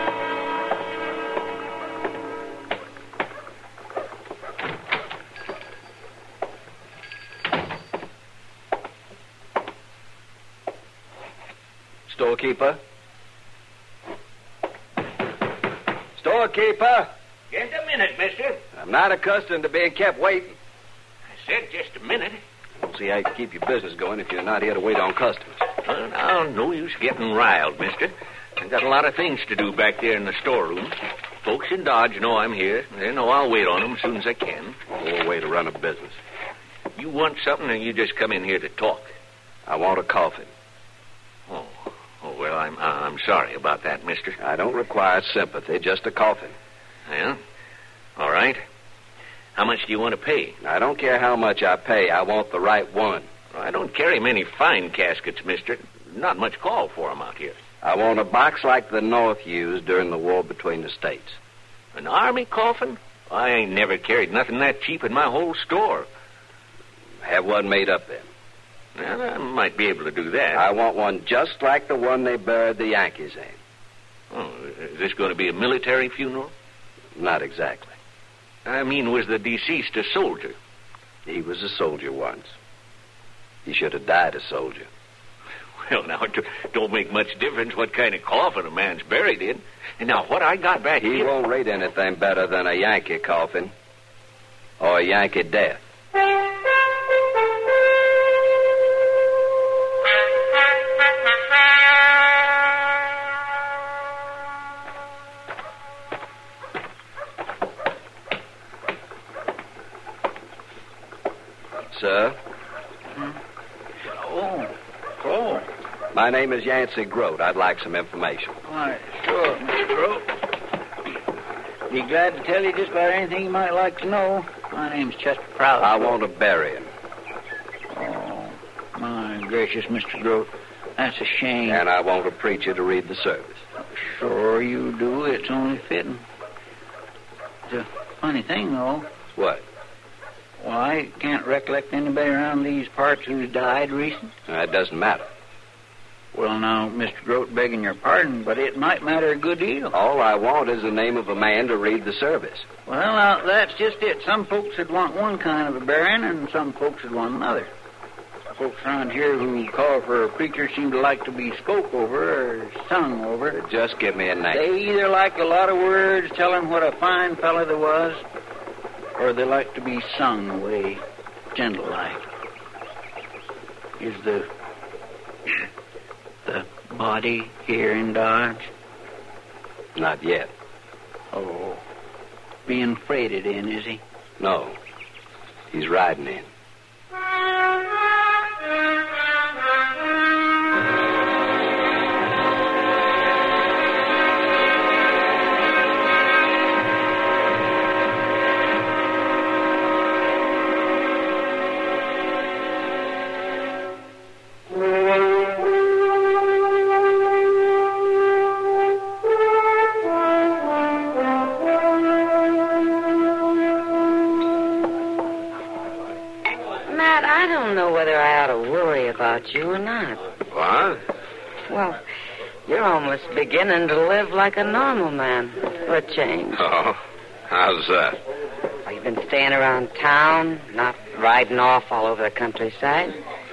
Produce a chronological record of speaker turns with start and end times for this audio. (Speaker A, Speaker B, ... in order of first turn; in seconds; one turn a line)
Speaker A: 12.1-12.8
Speaker A: 16.2-17.1
Speaker B: 17.5-18.6
Speaker A: 18.7-20.6
Speaker B: 21.3-22.4
Speaker A: 22.8-25.6
Speaker B: 25.9-34.8
Speaker A: 35.0-36.2
Speaker B: 37.0-39.1
Speaker A: 39.7-40.5
Speaker B: 41.5-44.4
Speaker A: 44.4-46.6
Speaker B: 47.1-47.4
Speaker B: 48.2-48.6
Speaker B: 49.6-50.6
Speaker A: 50.6-53.3
Speaker B: 53.5-57.6
Speaker A: 57.8-61.4
Speaker B: 62.0-66.1
Speaker A: 67.2-68.3
Speaker B: 69.0-70.7
Speaker A: 70.5-73.6
Speaker B: 74.3-76.5
Speaker A: 77.2-78.0
Speaker B: 78.7-80.6
Speaker A: 81.2-82.5
Speaker A: 83.7-84.9
Speaker B: 85.8-91.3
Speaker A: 91.0-93.7
Speaker A: 94.8-95.8
Speaker A: 111.9-112.4
Speaker C: 114.0-115.7
Speaker A: 116.1-118.6
Speaker C: 118.7-120.3
Speaker C: 121.9-126.2
Speaker A: 125.8-126.9
Speaker C: 127.9-131.8
Speaker A: 131.7-133.6
Speaker C: 133.9-136.2
Speaker C: 137.7-139.1
Speaker A: 139.4-139.7
Speaker C: 140.6-144.3
Speaker A: 144.5-145.3
Speaker C: 146.3-150.0
Speaker A: 149.9-152.7
Speaker C: 152.9-157.7
Speaker C: 158.6-163.6
Speaker A: 163.5-164.7
Speaker C: 164.5-168.2
Speaker C: 169.2-171.0
Speaker C: 171.5-172.2
Speaker C: 174.0-174.5
Speaker C: 176.5-178.7
Speaker A: 179.9-180.5
Speaker C: 181.3-181.8
Speaker C: 182.7-184.0
Speaker A: 184.4-184.8
Speaker A: 185.7-186.5
Speaker D: 216.9-220.2
Speaker E: 220.5-221.0
Speaker D: 221.7-222.0
Speaker D: 222.7-226.6
Speaker E: 226.6-228.2
Speaker D: 228.9-233.2